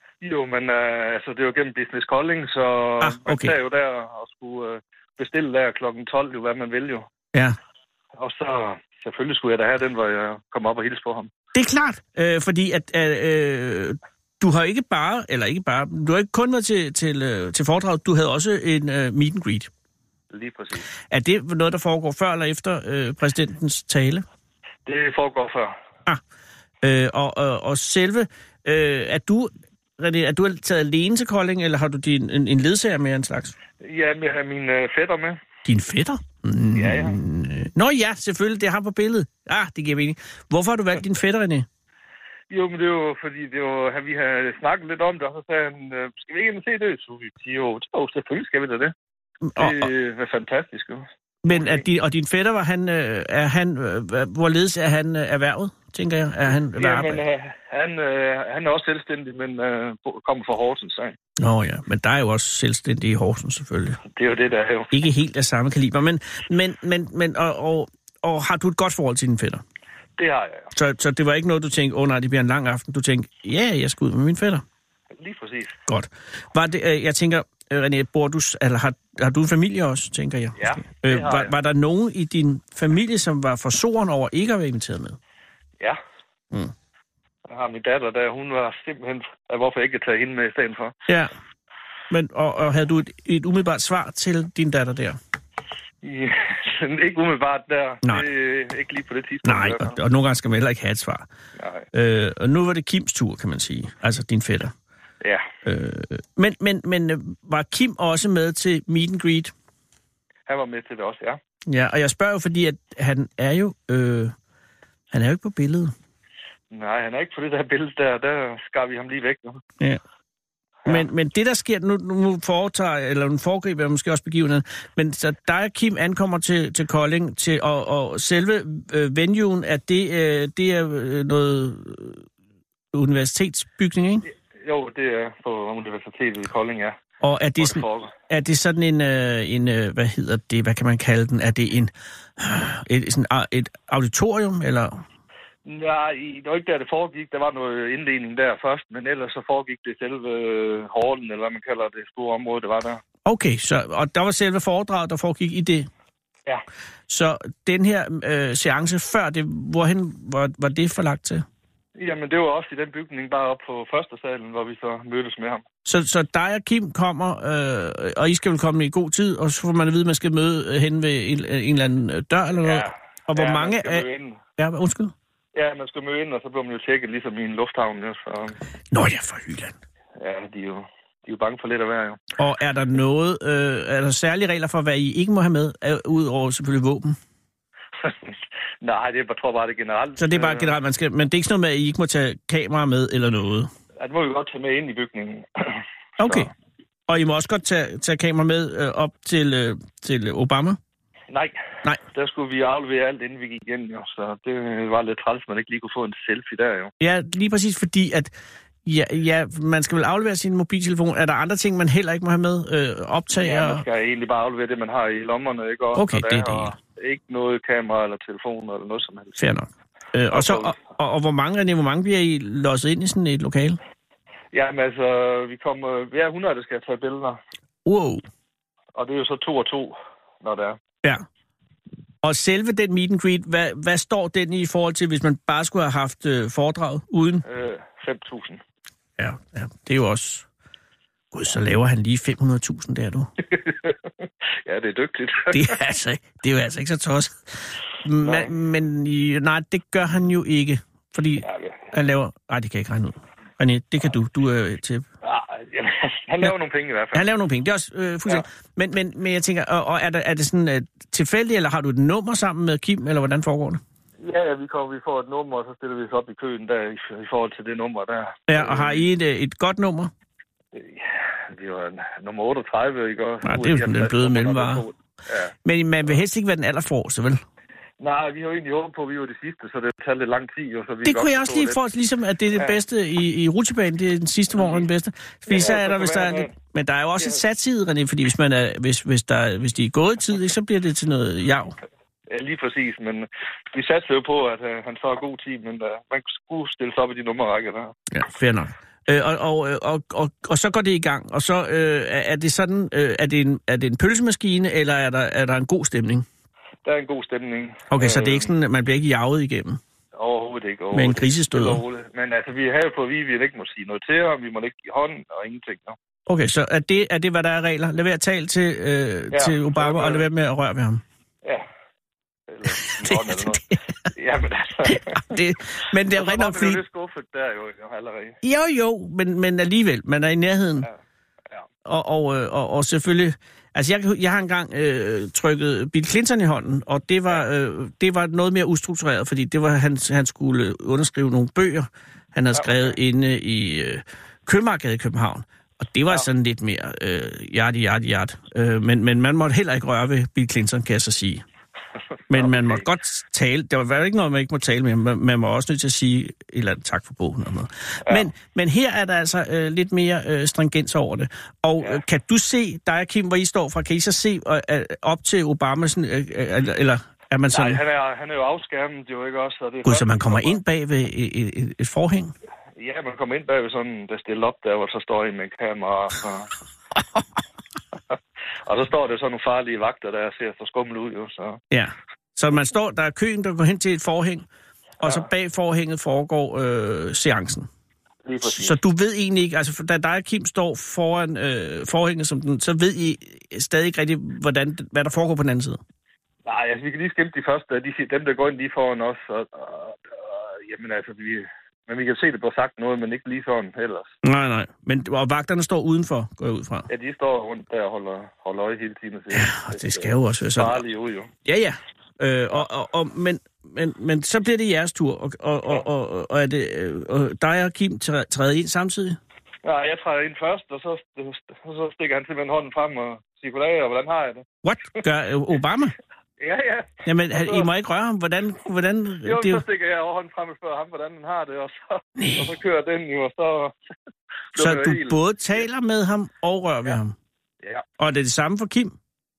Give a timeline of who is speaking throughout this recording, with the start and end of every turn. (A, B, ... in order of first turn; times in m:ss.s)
0:00.2-0:07.1 A
0:03.0-0:03.6 B
0:08.2-0:11.3 A
0:11.5-0:19.7 B
0:20.3-0:20.9 A
0:21.0-0:24.2 B
0:24.9-0:25.7 A
0:26.8-0:33.6 B
0:33.8-0:35.4 A
0:35.6-0:41.7 B
0:36.8-0:37.2 A
0:42.5-0:48.9 A
0:49.5-0:49.9 B
0:49.6-0:51.8 A
0:51.4-0:57.2 B
0:56.8-1:01.2 A
1:01.4-1:04.0 B
1:04.1-1:04.9 A
1:04.9-1:09.6 B
1:10.2-1:10.7 A
1:10.7-1:14.6 B
1:15.1-1:15.8 A
1:15.9-1:25.2 B
1:20.6-1:21.5 A
1:27.5-1:30.9 A
1:31.1-1:31.3 B
1:32.1-1:35.2 B
1:36.0-1:40.0 A
1:39.4-1:41.3 B
1:41.6-1:41.9 A
1:41.9-1:44.8 B
1:45.6-1:49.5 B
1:50.5-1:51.4 A
1:51.7-1:54.3 B
1:55.1-1:55.9 B
1:56.7-1:59.6 A
2:00.9-2:12.2 B
2:12.9-2:14.3 B
2:14.6-2:17.0 A
2:17.2-2:25.0 B
2:17.6-2:18.1 A
2:25.7-2:33.0 A
2:33.3-2:35.9 B
2:37.1-2:41.4 B
2:42.0-2:45.6 A
2:45.8-2:55.1 B
2:52.6-2:54.4 A
2:55.6-2:58.6 A
2:58.9-2:59.8 B
3:00.2-3:02.2 A
3:02.4-3:07.2 B
3:08.0-3:10.7 A
3:10.2-3:13.7 B
3:14.0-3:16.5 A
3:16.2-3:16.5 B
3:17.1-3:20.8 B
3:21.3-3:26.9 A
3:27.0-3:28.3 B
3:28.8-3:33.8 B
3:33.4-3:39.5 A
3:36.0-3:36.8 B
3:39.4-3:43.8 B
3:40.3-3:40.8 A
3:44.5-3:47.4 A
3:47.8-3:48.2 B
3:49.0-3:50.8 A
3:52.2-3:57.4 B
3:57.4-3:58.6 A
3:59.2-4:00.5 B
4:01.3-4:03.3 B
4:03.6-4:03.9 A
4:04.7-4:05.7 A
4:05.5-4:15.0 B
4:08.2-4:08.5 A
4:11.4-4:11.9 A
4:15.2-4:17.2 A
4:17.1-4:23.8 B
4:24.2-4:29.0 A
4:28.5-4:30.1 B
4:30.7-4:35.5 A
4:33.4-4:34.8 B
4:35.6-4:37.4 B
4:38.0-4:41.8 A
4:41.0-4:51.7 B
4:44.5-4:44.9 A
4:45.5-4:46.5 A
4:52.3-4:57.9 A
4:58.1-5:06.3 B
5:06.8-5:08.5 A
5:07.9-5:09.8 B
5:10.2-5:16.0 A
5:10.9-5:11.8 B
5:16.3-5:21.0 B
5:19.3-5:20.2 A
5:22.5-5:25.4 A
5:22.7-5:23.8 B
5:24.8-5:26.8 B
5:26.1-5:28.4 A
5:28.4-5:30.9 B
5:31.8-5:51.4 B
5:42.5-5:42.9 A
5:52.3-6:07.8 B
5:52.3-5:52.8 A
6:07.5-6:10.6 A
6:09.8-6:12.3 B
6:12.8-6:16.5 A
6:18.7-6:21.6 A
6:21.7-6:24.5 B
6:25.0-6:27.7 B
6:28.2-6:28.8 A
6:28.4-6:35.8 B
6:36.4-6:44.1 A
6:44.2-6:46.9 B
6:46.9-6:51.3 A
6:49.3-6:50.8 B
6:51.4-6:59.2 B
6:59.6-7:04.4 A
7:04.6-7:06.0 B
7:06.4-7:07.7 A
7:07.0-7:09.6 B
7:09.2-7:13.8 A
7:12.2-7:12.5 B
7:14.5-7:15.6 A
7:14.6-7:17.2 B
7:18.0-7:19.0 B